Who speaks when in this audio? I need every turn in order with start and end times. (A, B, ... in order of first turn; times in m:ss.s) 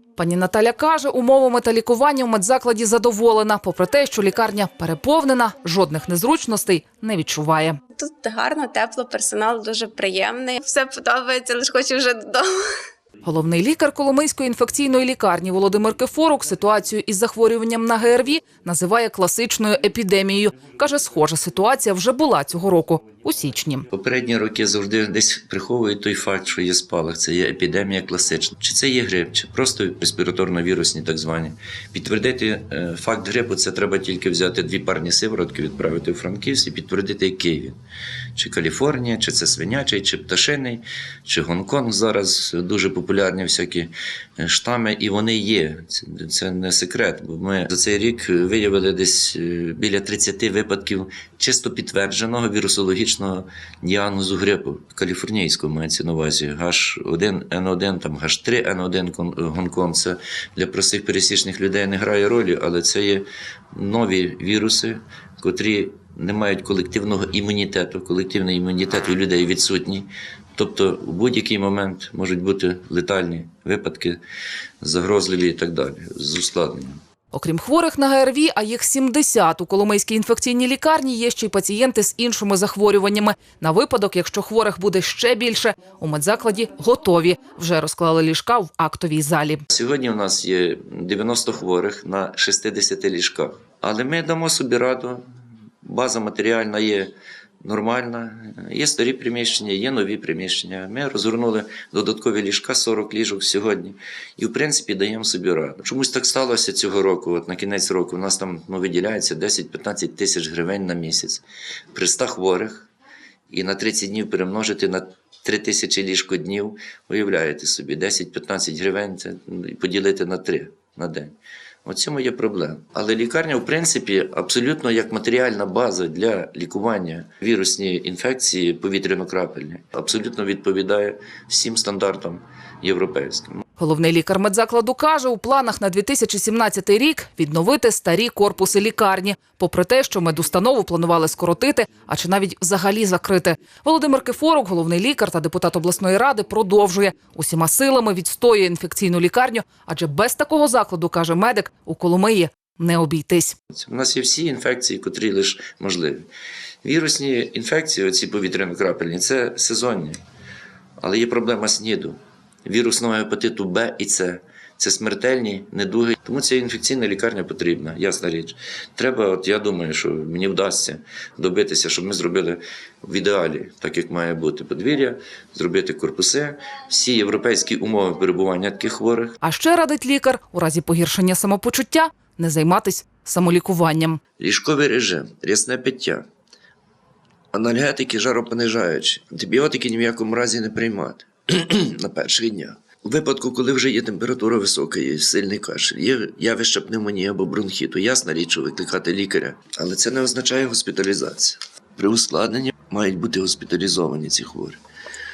0:00.2-0:07.8 A
0:08.0-0:12.5 B
0:13.2-0:23.8 A
0:23.9-0:37.8 C
0:38.4-1:14.2 C
1:14.8-1:17.0 C
1:17.3-1:29.6 A
1:29.7-1:35.2 C
1:35.8-1:37.1 C
1:37.6-1:52.9 C
1:53.5-2:13.6 C
2:13.8-2:33.6 A
2:33.7-2:36.3 C
2:36.8-2:40.2 C
2:41.0-2:59.4 C
2:59.4-3:04.2 A
3:04.4-3:06.2 C
3:07.5-3:24.8 C